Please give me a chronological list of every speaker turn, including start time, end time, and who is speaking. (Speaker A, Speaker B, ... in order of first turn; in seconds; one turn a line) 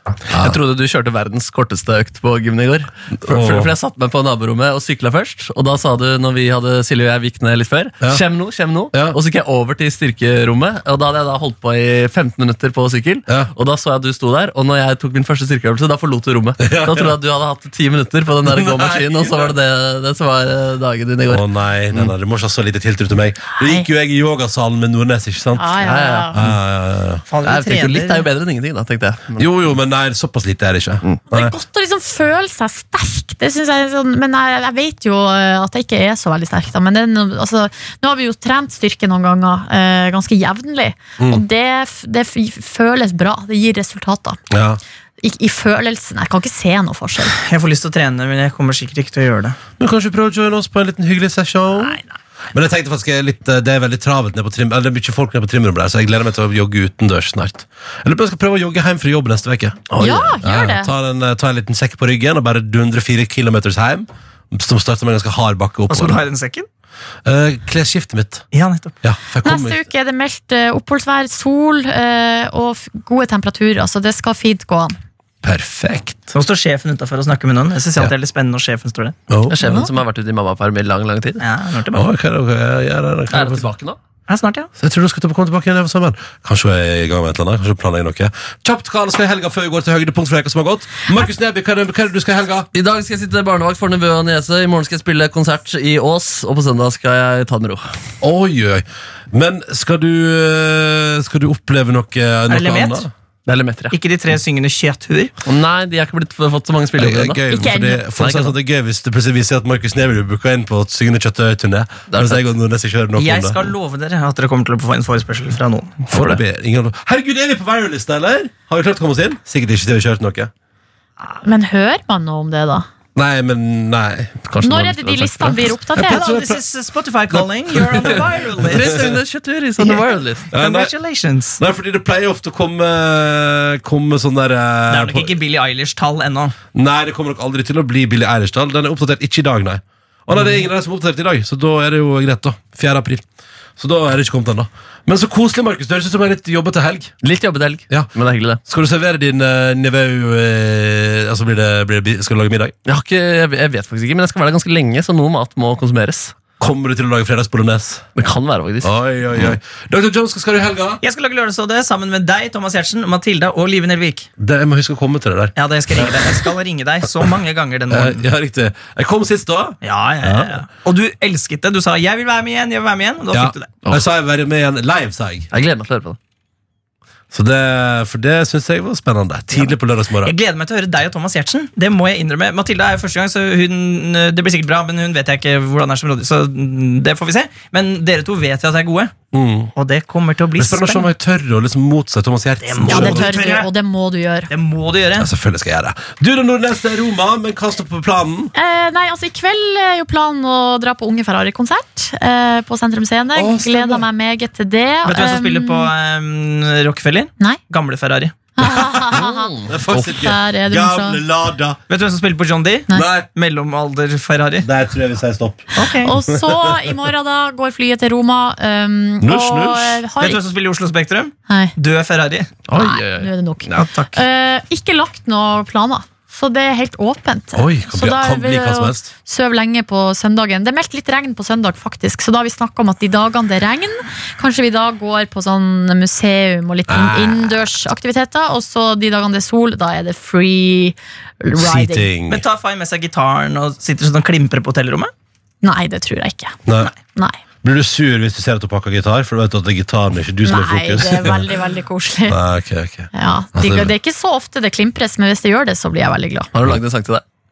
Speaker A: 0.3-0.6
Speaker B: 0.3-22.1
Speaker A: 3.2-3.7
Speaker A: 16.6-17.1
Speaker A: 18.4-19.5
Speaker A: 21.3-25.8
Speaker C: 23.6-23.9
Speaker C: 25.6-26.4
Speaker B: 25.8-26.6
Speaker A: 26.3-27.2
Speaker D: 27.3-28.2
Speaker B: 27.4-29.4
Speaker A: 29.4-31.5
Speaker C: 31.3-44.4
Speaker A: 44.5-44.8
Speaker C: 45.2-47.3
Speaker D: 47.3-49.6
Speaker A: 49.8-52.0
Speaker D: 51.8-52.1
Speaker A: 52.5-66.2
Speaker B: 59.9-60.3
Speaker C: 60.0-60.9
Speaker D: 65.9-66.7
Speaker A: 67.2-68.5
Speaker D: 68.5-69.0
Speaker A: 69.0-69.8
Speaker C: 69.4-75.0
Speaker A: 75.4-76.3
Speaker D: 76.3-79.2
Speaker A: 79.3-79.6
Speaker B: 79.5-81.4
Speaker C: 79.6-79.9
Speaker D: 81.4-82.0
Speaker A: 81.9-83.7
Speaker B: 83.3-84.0
Speaker D: 84.3-84.7
Speaker A: 84.8-92.7
Speaker B: 92.7-97.8
Speaker A: 98.2-103.1
Speaker D: 102.5-103.0
Speaker B: 103.5-104.0
Speaker D: 103.9-105.3
Speaker B: 105.4-107.4
Speaker A: 107.0-113.7
Speaker C: 107.5-108.0
Speaker B: 108.2-108.5
Speaker B: 112.1-112.5
Speaker D: 113.2-116.0
Speaker A: 116.1-120.5
Speaker B: 116.1-116.4
Speaker C: 121.4-122.9
Speaker A: 123.1-124.5
Speaker B: 124.5-125.7
Speaker C: 124.6-126.2
Speaker A: 125.9-126.6
Speaker D: 126.0-129.1
Speaker A: 127.3-129.1
Speaker B: 128.6-130.5
Speaker A: 130.5-130.9
Speaker D: 130.5-131.6
Speaker A: 131.6-135.3
Speaker D: 134.9-136.5
Speaker A: 136.7-143.2
Speaker A: 143.8-147.1
Speaker B: 147.2-148.6
Speaker A: 148.7-152.7
Speaker B: 152.8-156.3
Speaker A: 156.6-158.1
Speaker B: 158.2-158.9
Speaker A: 158.8-161.0
Speaker D: 161.0-164.3
Speaker A: 164.4-166.1
Speaker D: 165.6-168.2
Speaker A: 167.9-170.6
Speaker D: 169.8-173.7
Speaker A: 173.3-175.5
Speaker B: 175.5-176.2
Speaker A: 177.3-180.3
Speaker D: 179.5-189.1
Speaker A: 189.3-189.7
Speaker D: 189.7-191.1
Speaker A: 190.6-193.4
Speaker D: 192.6-193.7
Speaker C: 192.9-194.5
Speaker D: 194.5-195.3
Speaker A: 195.2-198.5
Speaker C: 198.5-205.9
Speaker A: 203.3-204.1
Speaker D: 205.1-208.3
Speaker C: 208.6-211.2
Speaker A: 208.6-211.8
Speaker B: 209.1-209.8
Speaker D: 211.9-214.7
Speaker A: 212.9-213.3
Speaker A: 214.6-216.9
Speaker D: 215.8-216.1
Speaker C: 216.0-220.4
Speaker A: 219.2-220.0
Speaker D: 220.2-222.5
Speaker C: 221.5-221.7
Speaker B: 222.7-223.9
Speaker C: 222.7-242.1
Speaker A: 227.5-229.1
Speaker A: 236.9-237.5
Speaker A: 241.6-242.4
Speaker D: 242.3-245.1
Speaker C: 245.6-246.6
Speaker A: 246.7-246.9
Speaker A: 247.6-251.5
Speaker C: 250.4-252.4
Speaker A: 252.3-253.9
Speaker C: 253.1-256.5
Speaker B: 256.5-257.2